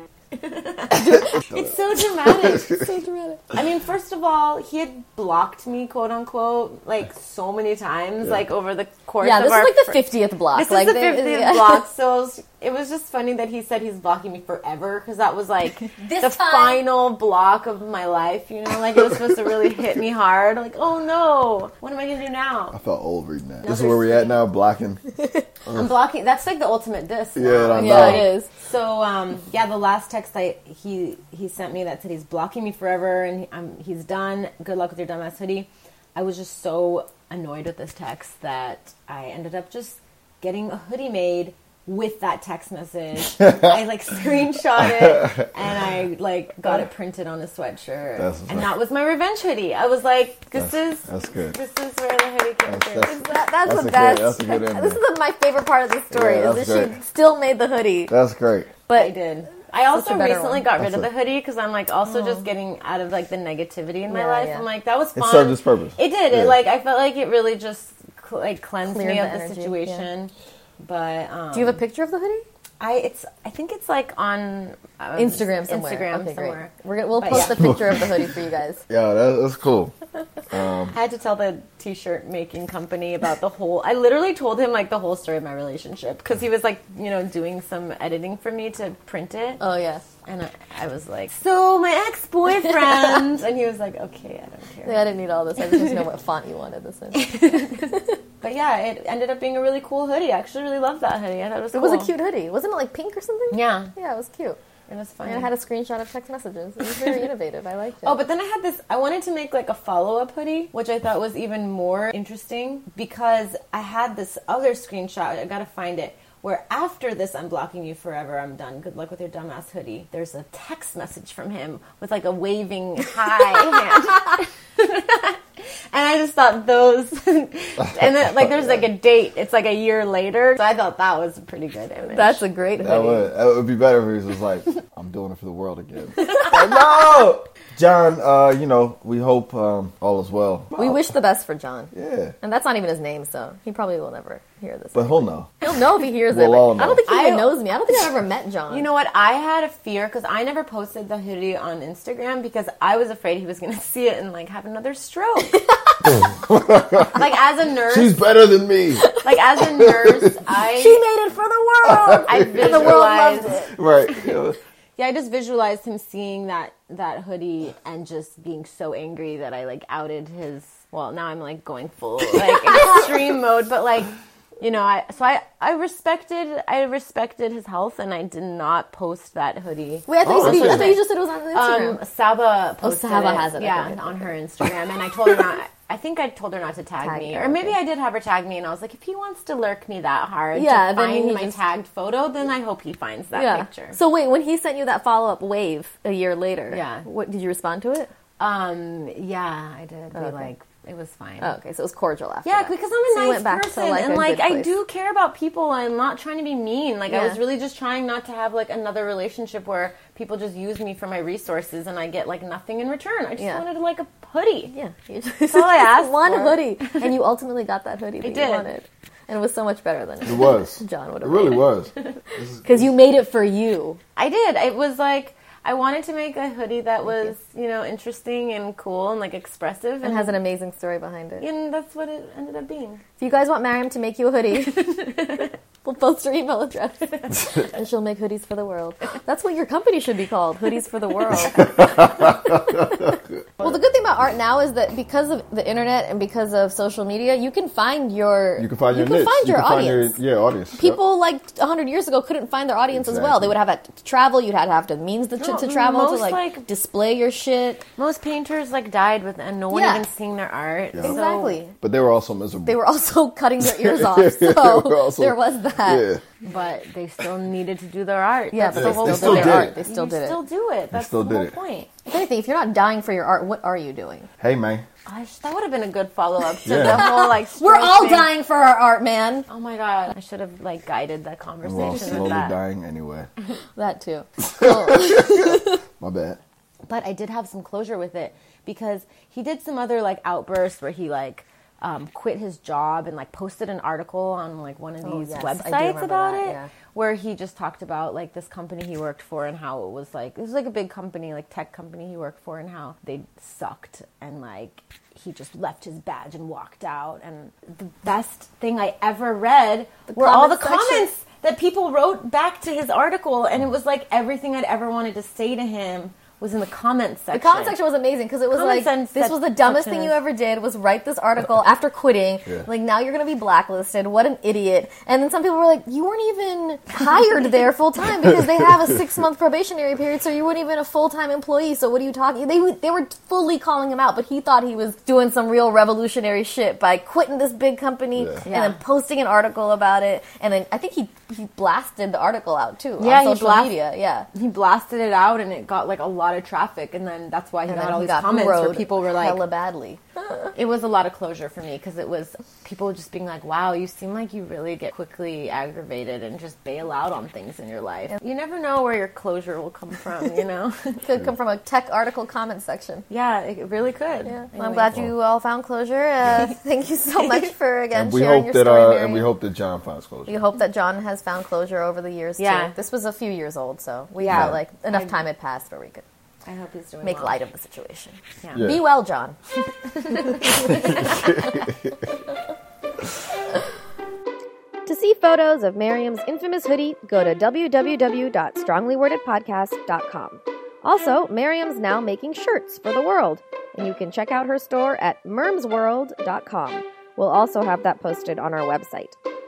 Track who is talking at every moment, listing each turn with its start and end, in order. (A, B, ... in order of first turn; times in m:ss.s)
0:00.4-0:02.9 A
0:00.9-0:01.4 B
0:00.9-0:01.7 C
0:02.2-0:02.8 C
0:02.6-0:03.4 B
0:03.5-0:22.8 A
0:09.2-0:11.8 B
0:16.0-0:16.8 B
0:22.7-0:25.0 C
0:23.6-0:24.4 A
0:25.6-0:25.9 C
0:25.7-0:53.2 A
0:27.4-0:28.3 C
0:27.7-0:28.5 B
0:43.4-0:43.7 C
0:44.8-0:45.4 C
0:48.2-0:48.7 C
0:50.5-0:51.6 C
0:52.7-0:55.0 C
0:53.0-0:58.1 B
0:56.1-0:57.0 C
0:58.1-0:58.7 C
0:58.9-0:59.1 B
0:58.9-1:11.8 A
0:59.9-1:00.6 B
1:00.8-1:01.1 C
1:02.1-1:02.4 B
1:04.1-1:04.6 B
1:05.1-1:06.6 C
1:08.9-1:10.0 B
1:11.5-1:12.4 B
1:12.8-1:17.8 A
1:15.2-1:18.8 B
1:17.4-1:18.0 C
1:18.9-1:19.9 C
1:20.5-1:20.9 C
1:20.9-1:29.6 A
1:29.6-1:30.0 B
1:30.2-1:36.0 A
1:34.8-1:38.2 B
1:37.1-1:42.1 A
1:41.7-1:44.6 B
1:43.5-1:43.9 A
1:44.9-1:45.5 A
1:45.2-1:48.2 B
1:48.0-2:12.4 A
2:12.1-2:13.3 B
2:12.8-2:21.1 C
2:20.8-2:28.9 B
2:21.9-2:22.3 C
2:24.9-2:25.5 C
2:26.3-2:27.0 C
2:27.1-2:27.6 A
2:28.7-2:35.6 A
2:36.0-2:37.2 C
2:37.0-2:38.2 A
2:37.9-2:39.1 C
2:39.0-2:39.4 B
2:39.2-2:41.0 A
2:39.8-2:40.3 C
2:40.7-2:43.7 B
2:41.8-2:43.1 C
2:42.1-2:43.5 A
2:43.7-2:44.6 C
2:45.0-3:14.0 A
3:00.1-3:02.0 B
3:00.2-3:00.9 C
3:02.8-3:04.3 B
3:07.0-3:07.8 B
3:10.5-3:11.6 B
3:13.3-3:18.1 B
3:16.7-3:17.0 A
3:18.4-3:21.5 A
3:20.2-3:20.5 B
3:21.4-3:24.7 B
3:22.4-3:34.7 A
3:27.1-3:27.4 B
3:34.7-3:41.9 B
3:35.5-3:37.1 A
3:38.2-3:38.7 A
3:40.2-3:42.9 C
3:42.6-3:44.0 B
3:44.2-3:50.4 A
3:50.0-3:51.4 B
3:51.4-3:53.0 A
3:53.2-4:10.2 B
3:54.8-3:55.5 A
4:01.3-4:03.7 C
4:08.6-4:11.0 C
4:10.7-4:17.8 B
4:12.9-4:13.6 C
4:15.4-4:16.7 A
4:18.0-4:21.6 A
4:19.7-4:20.0 B
4:21.0-4:21.8 B
4:21.8-4:22.8 C
4:22.6-4:26.1 B
4:23.6-4:26.2 C
4:26.4-4:31.9 A
4:28.5-4:30.4 B
4:28.7-4:29.7 C
4:30.9-4:31.5 C
4:32.0-4:34.3 B
4:34.4-4:34.8 C
4:35.0-4:38.3 A
4:36.6-4:37.1 C
4:36.6-4:39.5 B
4:39.5-4:42.6 A
4:41.6-4:43.3 C
4:43.8-4:45.8 B
4:44.4-4:46.4 C
4:46.9-5:17.8 A
4:55.0-4:56.7 B
5:10.1-5:11.1 B
5:17.3-5:44.3 B
5:18.5-5:20.2 A
5:38.4-5:38.8 A
5:43.0-5:43.8 A
5:44.3-5:49.4 A
5:47.7-5:50.0 B
5:50.5-6:01.0 A
6:01.0-6:03.0 B
6:03.1-6:05.0 A
6:04.2-6:09.3 B
6:07.9-6:10.4 C
6:10.3-6:16.0 B
6:12.4-6:12.7 A
6:14.3-6:14.6 C
6:14.3-6:15.2 A
6:16.4-6:17.4 A
6:17.0-6:19.4 B
6:18.4-6:18.7 A
6:18.5-6:18.8 C
6:19.9-6:21.3 B
6:20.8-6:22.0 C
6:24.8-6:39.2 B